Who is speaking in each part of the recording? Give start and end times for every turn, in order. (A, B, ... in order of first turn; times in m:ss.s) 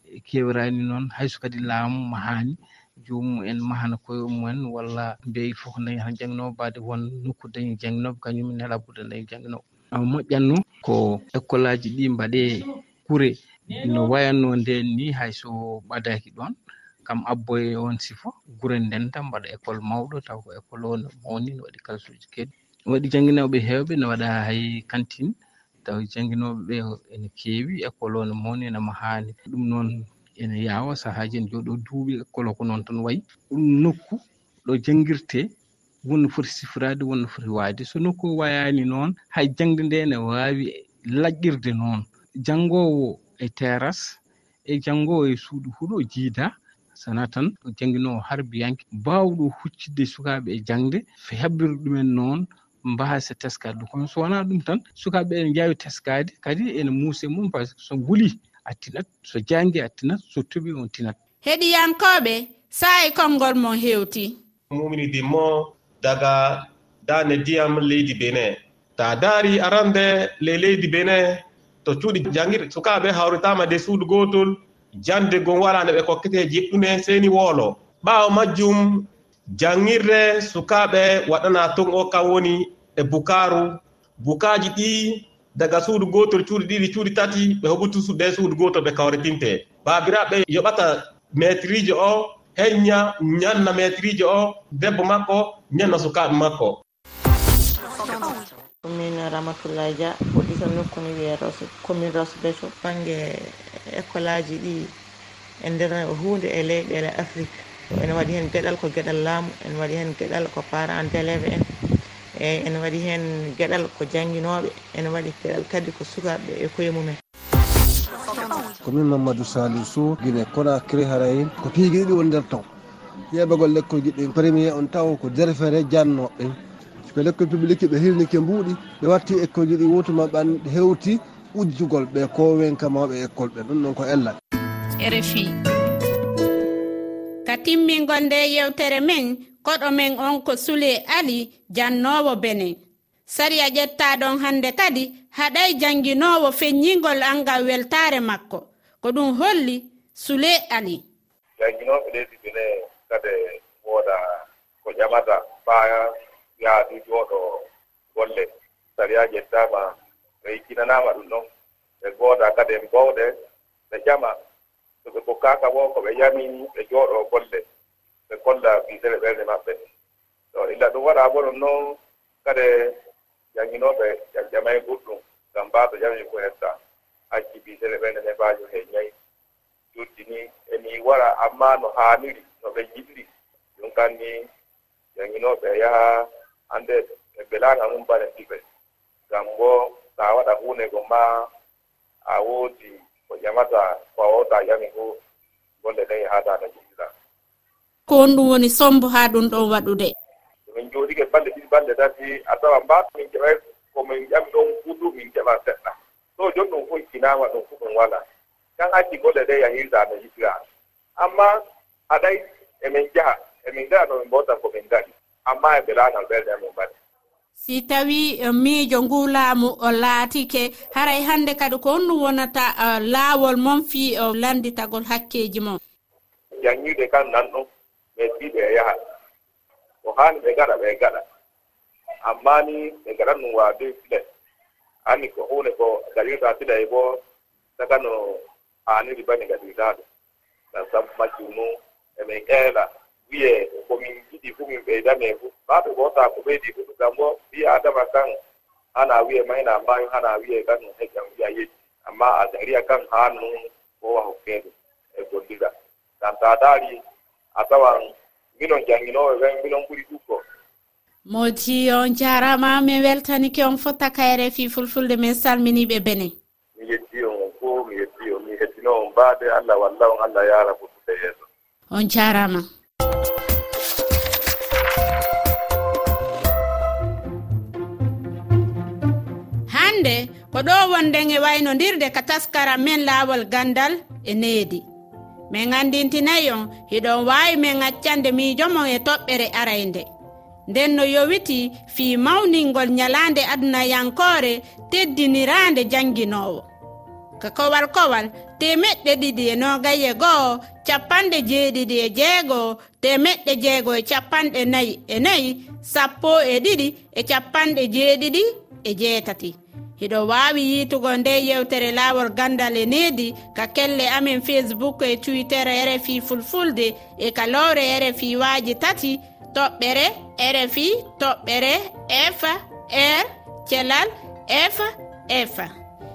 0:00.2-0:16.5 A
0:17.1-0:25.3 A
0:25.8-0:35.5 A
0:36.0-1:01.2 A
1:01.4-1:04.4 B
1:04.7-1:05.5 C
1:06.0-1:06.5 C
1:07.1-1:11.2 C
1:11.8-1:19.0 C
1:19.6-1:23.7 C
1:24.2-1:36.8 C
1:38.8-1:44.9 D
1:45.6-1:51.7 D
1:52.4-1:57.2 D
1:58.8-2:02.6 E
2:03.3-2:06.5 E
2:07.1-2:14.4 E
2:15.0-2:15.5 B
2:17.4-2:31.0 B
2:31.6-2:41.4 F
2:42.0-2:43.3 F
2:43.9-2:44.3 F
2:45.0-2:47.6 F
2:48.3-2:49.8 F
2:50.5-2:52.9 F
2:53.5-2:56.8 F
2:57.3-2:59.1 F
2:59.9-3:04.5 F
3:05.1-3:08.6 F
3:09.3-3:11.5 F
3:12.2-3:15.2 F
3:15.8-3:17.1 F
3:18.1-3:20.1 B
3:20.7-3:28.2 F
3:28.8-3:30.6 F
3:31.2-3:31.5 F
3:32.1-3:36.9 F
3:37.6-3:45.8 B
3:46.6-3:48.9 F
3:50.0-3:51.2 F
3:52.2-3:54.2 F
3:55.0-3:57.2 F
3:57.8-4:00.0 F
4:00.7-4:08.4 F
4:08.9-4:17.0 F
4:17.5-4:18.0 F
4:18.6-4:20.4 F
4:21.3-4:26.3 B
4:26.8-4:31.5 F
4:31.9-4:32.6 B
4:39.7-4:44.8 B
4:45.5-4:50.1 B
4:50.7-4:56.6 B
4:57.4-5:25.7 B